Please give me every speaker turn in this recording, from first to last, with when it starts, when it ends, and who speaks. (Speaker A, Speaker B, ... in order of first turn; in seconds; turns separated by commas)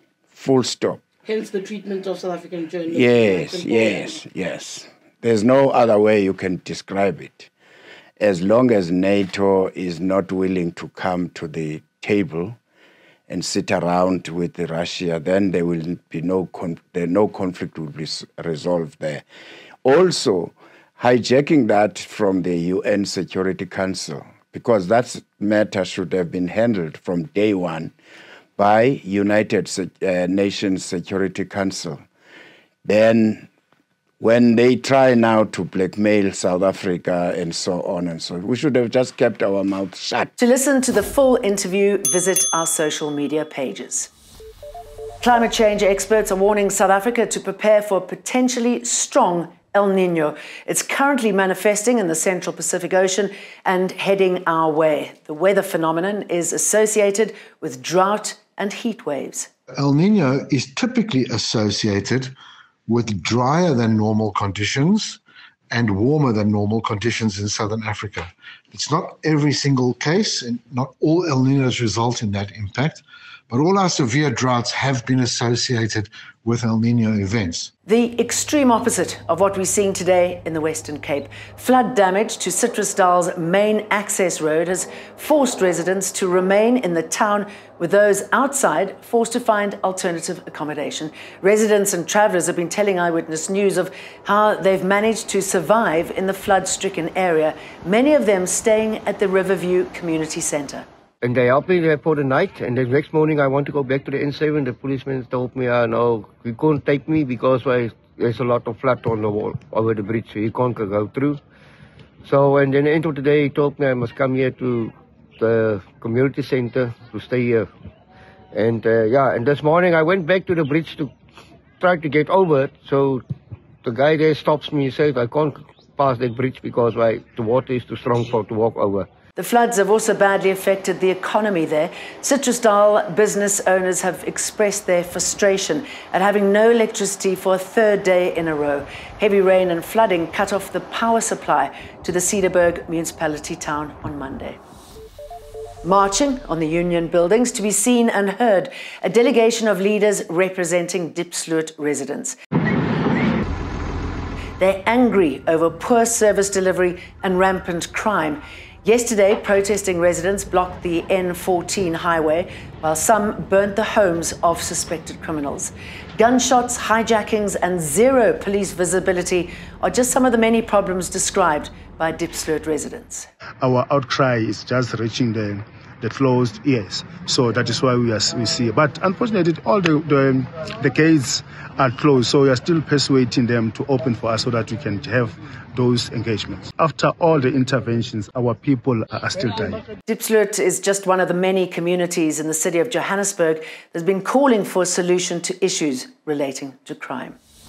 Speaker A: 0.3-1.0, Speaker B: 1.2-4.2, Speaker A: 2.9-7.5, Speaker A: 8.2-12.6, Speaker A: 13.3-19.2, Speaker A: 19.8-27.9, Speaker A: 28.6-32.0, Speaker A: 32.8-33.5, Speaker A: 34.2-40.3, Speaker C: 40.4-44.1, Speaker C: 45.2-59.5, Speaker D: 59.7-62.3, Speaker D: 62.9-65.2, Speaker D: 65.7-77.7, Speaker C: 77.8-100.8, Speaker E: 101.2-111.4, Speaker E: 112.2-117.7, Speaker E: 118.5-121.1, Speaker E: 121.8-123.2, Speaker E: 123.8-129.1, Speaker C: 129.3-144.6, Speaker C: 145.8-152.3, Speaker C: 154.6-173.3, Speaker F: 173.6-189.8, Speaker C: 190.1-197.4